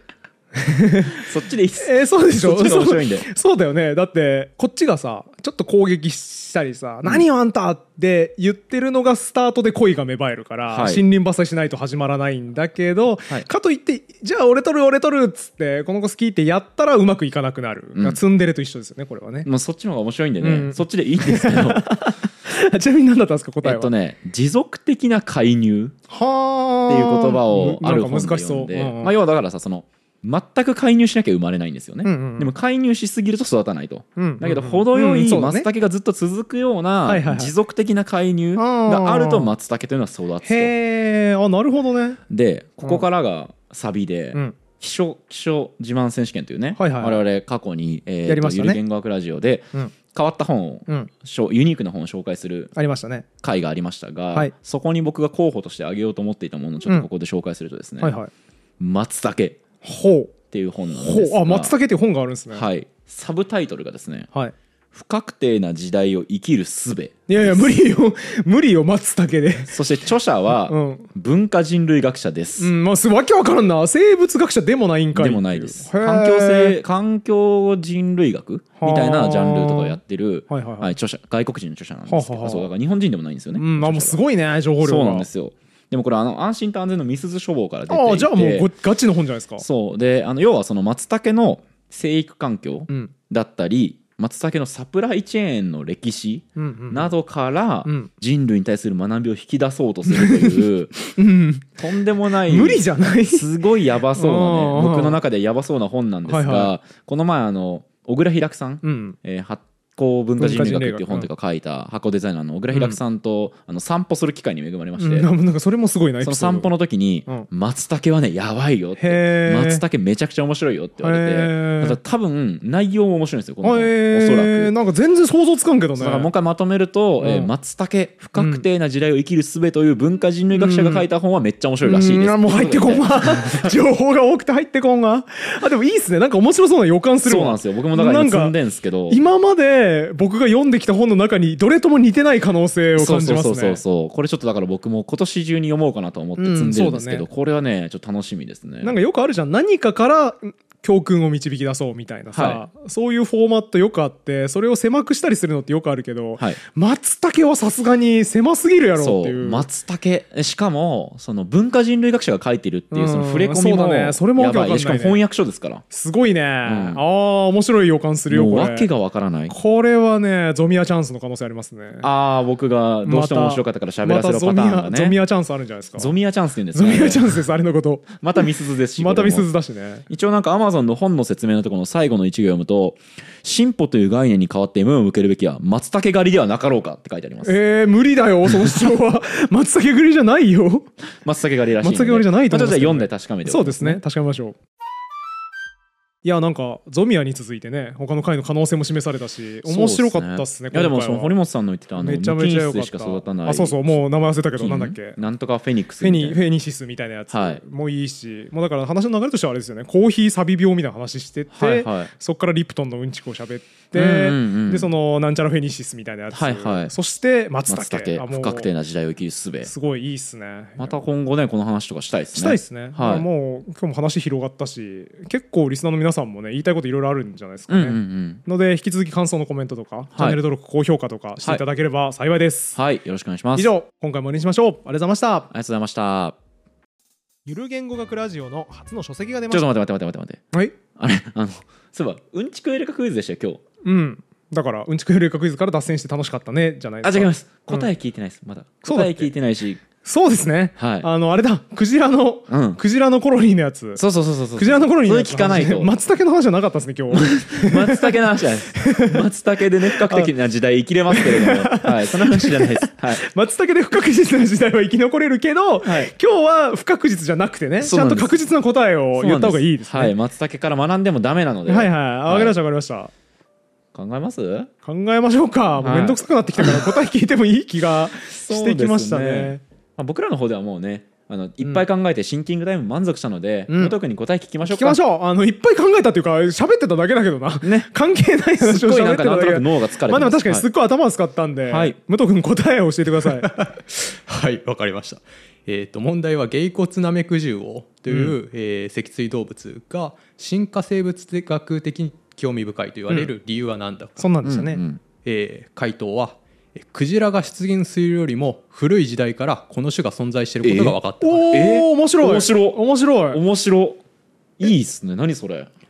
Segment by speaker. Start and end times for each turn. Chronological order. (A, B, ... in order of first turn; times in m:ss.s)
0:00.6-0:01.2 A
0:01.1-0:03.3 B
0:01.8-0:19.5 A
0:10.7-0:11.0 B
0:18.0-0:18.2 B
0:19.4-0:21.9 B
0:20.4-0:23.9 A
0:23.6-0:26.0 B
0:26.1-0:29.1 A
0:26.9-0:40.7 B
0:32.0-0:32.5 A
0:34.2-0:35.7 A
0:37.0-0:37.5 A
0:38.6-0:39.5 A
0:40.4-0:42.2 A
0:42.3-0:52.7 B
0:46.8-0:47.2 A
0:48.2-0:48.8 A
0:52.8-0:53.3 A
0:53.4-0:58.2 B
0:58.0-0:58.3 A
0:58.8-0:59.6 B
0:59.8-1:00.3 A
1:00.5-1:01.8 B
1:00.9-1:02.7 A
1:02.5-1:04.3 B
1:04.9-1:07.7 B
1:07.3-1:09.8 A
1:09.7-1:12.7 B
1:10.6-1:11.1 A
1:12.6-1:16.8 A
1:15.2-1:24.2 B
1:18.8-1:20.9 A
1:22.1-1:22.7 A
1:23.6-1:25.3 A
1:24.8-1:28.7 B
1:27.9-1:29.6 A
1:29.6-1:41.0 B
1:36.6-1:37.1 A
1:37.8-1:38.1 A
1:40.1-1:41.8 A
1:41.8-1:55.3 B
1:42.4-1:43.5 A
1:44.1-1:45.2 A
1:46.3-1:46.8 A
1:48.8-1:49.2 A
1:50.4-1:51.3 A
1:52.7-1:53.0 A
1:55.0-1:56.7 A
1:56.2-2:04.7 B
1:59.0-1:59.8 A
2:01.0-2:02.0 A
2:03.6-2:06.3 A
2:06.0-2:13.8 B
2:07.2-2:07.5 A
2:08.4-2:08.6 A
2:10.5-2:11.1 A
2:11.8-2:18.6 A
2:17.2-2:19.2 B
2:19.1-2:23.8 A
2:23.0-2:29.0 B
2:26.4-2:27.3 A
2:28.8-2:39.7 A
2:32.3-2:32.6 B
2:39.0-2:45.8 B
2:42.9-2:45.2 A
2:45.9-2:48.9 A
2:46.6-2:47.0 B
2:48.3-2:49.6 B
2:49.5-2:52.1 A
2:52.0-2:55.2 B
2:53.0-2:56.1 A
2:56.0-2:57.4 B
2:56.7-3:00.0 A
2:58.2-2:59.5 B
3:00.1-3:07.6 B
3:07.4-3:10.9 A
3:11.2-3:14.0 B
3:11.8-3:14.6 A
3:16.2-3:21.3 A
3:19.6-3:24.0 B
3:22.0-3:25.2 A
3:24.6-3:26.4 B
3:26.0-3:38.7 A
3:27.3-3:27.6 B
3:31.5-3:32.1 B
3:33.9-3:34.9 B
3:36.3-3:36.9 B
3:37.7-3:39.7 B
3:39.6-3:41.0 A
3:40.8-3:43.3 B
3:42.3-3:52.8 A
3:47.7-3:48.4 B
3:52.8-3:53.7 B
3:53.6-3:55.5 A
3:55.5-3:56.4 B
3:57.5-3:59.7 A
3:59.5-4:00.4 B
4:01.0-4:03.6 B
4:03.8-4:07.9 A
4:07.0-4:09.8 B
4:08.8-4:09.3 A
4:10.0-4:14.0 A
4:10.8-4:11.1 B
4:12.5-4:12.8 B
4:14.0-4:15.9 B
4:14.6-4:18.2 A
4:17.1-4:23.2 B
4:18.7-4:19.2 A
4:20.0-4:20.3 A
4:21.1-4:30.1 A
4:25.8-4:26.1 B
4:27.8-4:28.4 B
4:29.2-4:32.6 B
4:31.7-4:33.1 A
4:33.9-4:34.7 B
4:34.8-4:39.6 A
4:35.8-4:36.9 B
4:38.3-4:45.0 B
4:43.7-4:44.0 A
4:44.7-4:53.6 A
4:47.6-4:47.9 B
4:48.6-4:50.7 B
4:51.7-4:52.0 B
4:53.3-5:04.3 C
4:58.1-4:58.4 A
5:04.2-5:04.8 A
5:04.4-5:05.0 B
5:05.2-5:11.6 C
5:10.6-5:11.0 B
5:11.2-5:13.4 A
5:11.5-5:14.0 B
5:14.6-5:15.7 B